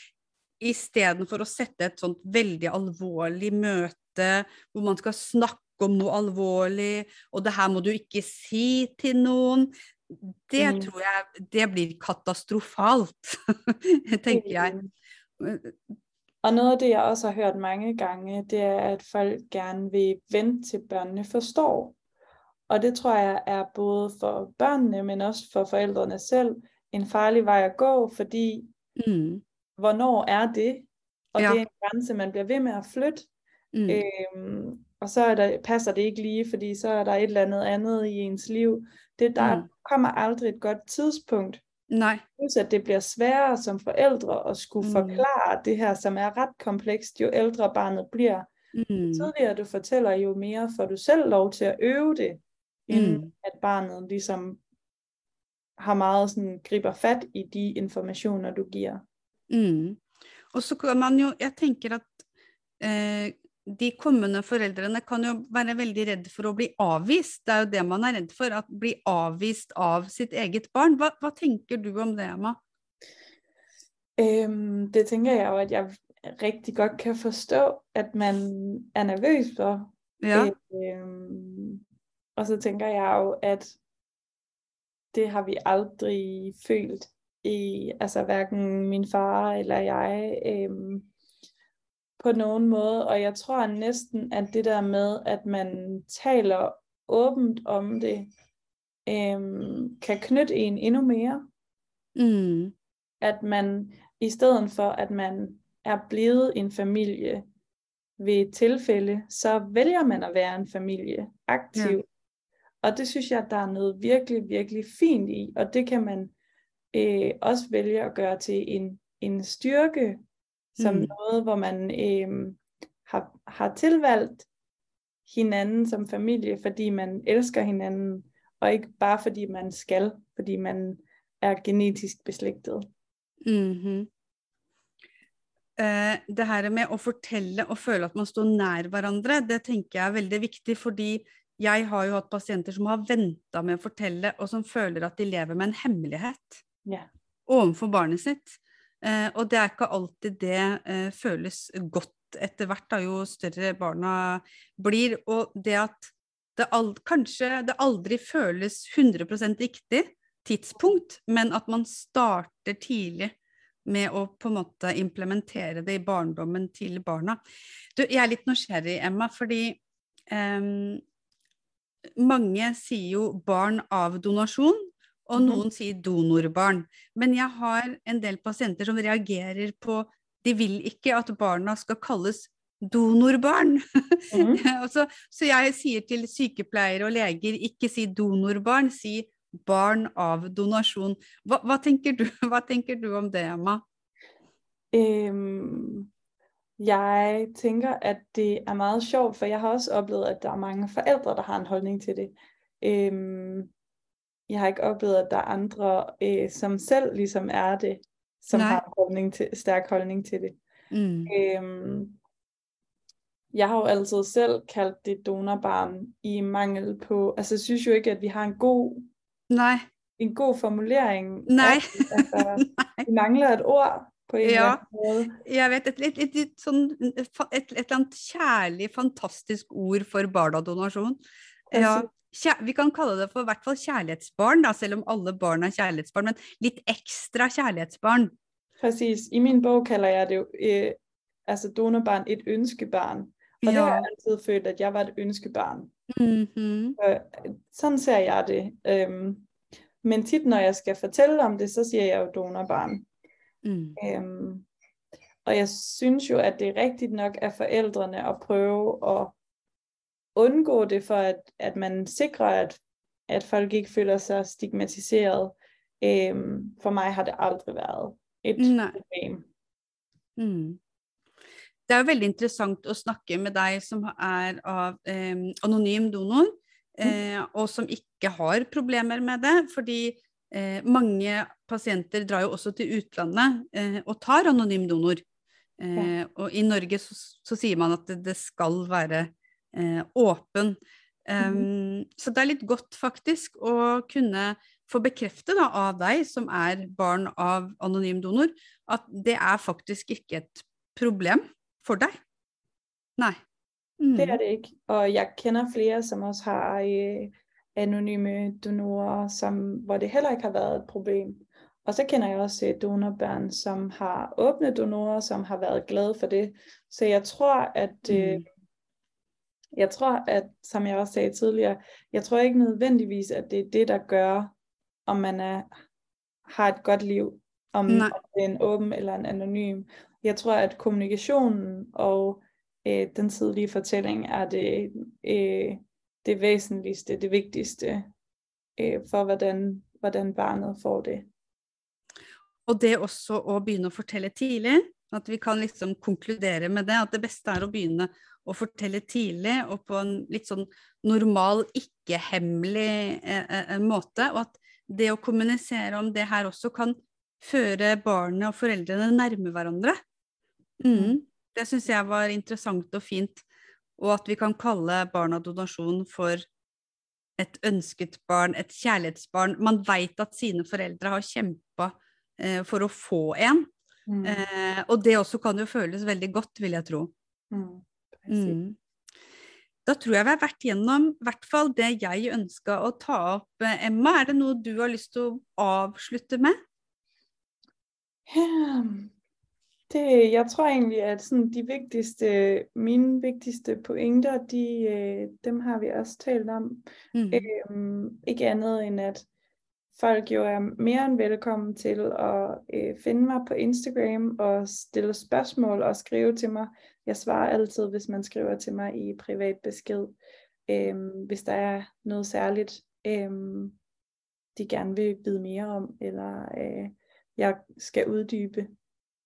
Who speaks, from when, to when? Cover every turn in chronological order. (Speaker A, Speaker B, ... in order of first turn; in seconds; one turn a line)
Speaker A: 0.6-14.7
Speaker B: 10.6-10.9
Speaker B: 14.3-14.9
Speaker A: 15.4-15.7
Speaker B: 16.4-22.0
Speaker B: 22.7-28.7
Speaker A: 29.0-29.4
Speaker B: 29.8-33.3
Speaker A: 33.7-34.0
Speaker B: 33.9-41.6
Speaker A: 39.4-39.7
Speaker A: 41.9-42.2
Speaker B: 42.4-48.5
Speaker A: 44.8-45.2
Speaker A: 48.7-49.3
Speaker B: 49.1-54.6
Speaker A: 52.9-53.3
Speaker B: 55.8-59.0
Speaker A: 59.5-60.0
Speaker A: 60.5-62.2
Speaker A: 62.8-72.6
Speaker B: 74.2-81.8
Speaker A: 80.2-80.5
Speaker B: 82.4-83.8
Speaker B: 85.1-91.1
Speaker B: 92.2-98.3
Speaker B: 99.0-101.4
Speaker A: 102.2-102.7
Speaker B: 103.2-107.4
Speaker B: 108.2-112.0
Speaker B: 112.8-116.3
Speaker B: 116.9-120.2
Speaker A: 120.8-121.1
Speaker B: 120.8-124.5
Speaker B: 125.3-132.8
Speaker A: 133.4-134.1
Speaker A: 135.8-146.6
Speaker A: 147.5-163.3
Speaker A: 163.8-167.4
Speaker A: 167.9-169.8
Speaker A: 170.3-171.0
Speaker A: 172.2-193.8
Speaker B: 175.4-175.6
Speaker B: 184.3-184.6
Speaker B: 194.9-196.1
Speaker B: 196.8-203.7
Speaker B: 204.5-210.6
Speaker A: 208.5-208.8
Speaker A: 210.9-211.3
Speaker B: 211.3-212.2
Speaker B: 213.5-219.1
Speaker A: 219.5-219.8
Speaker B: 220.2-225.3
Speaker A: 221.5-223.1
Speaker A: 224.4-224.8
Speaker A: 225.4-231.2
Speaker B: 231.7-232.1
Speaker A: 231.7-238.3
Speaker B: 238.8-245.9
Speaker A: 243.6-244.1
Speaker A: 246.1-247.0
Speaker B: 247.0-249.5
Speaker B: 250.0-253.1
Speaker A: 253.6-254.0
Speaker B: 254.0-254.7
Speaker B: 255.4-259.3
Speaker B: 260.3-269.5
Speaker A: 268.6-269.0
Speaker A: 270.4-270.8
Speaker A: 271.9-285.2
Speaker A: 285.8-302.2
Speaker B: 291.4-291.7
Speaker A: 304.0-304.4
Speaker B: 304.1-318.4
Speaker A: 318.1-318.4
Speaker B: 319.8-324.5
Speaker B: 325.1-325.7
Speaker B: 326.5-338.1
Speaker A: 327.9-328.1
Speaker B: 338.8-341.3
Speaker A: 342.7-360.0
Speaker A: 360.8-363.4
Speaker A: 364.0-366.4
Speaker A: 367.4-373.7
Speaker B: 374.1-374.4
Speaker A: 374.2-377.1
Speaker B: 377.5-378.6
Speaker A: 378.3-378.8
Speaker A: 379.9-386.6
Speaker B: 388.3-389.1
Speaker B: 389.9-399.2
Speaker A: 397.1-397.5
Speaker B: 399.9-410.1
Speaker B: 410.7-413.8
Speaker B: 414.5-418.7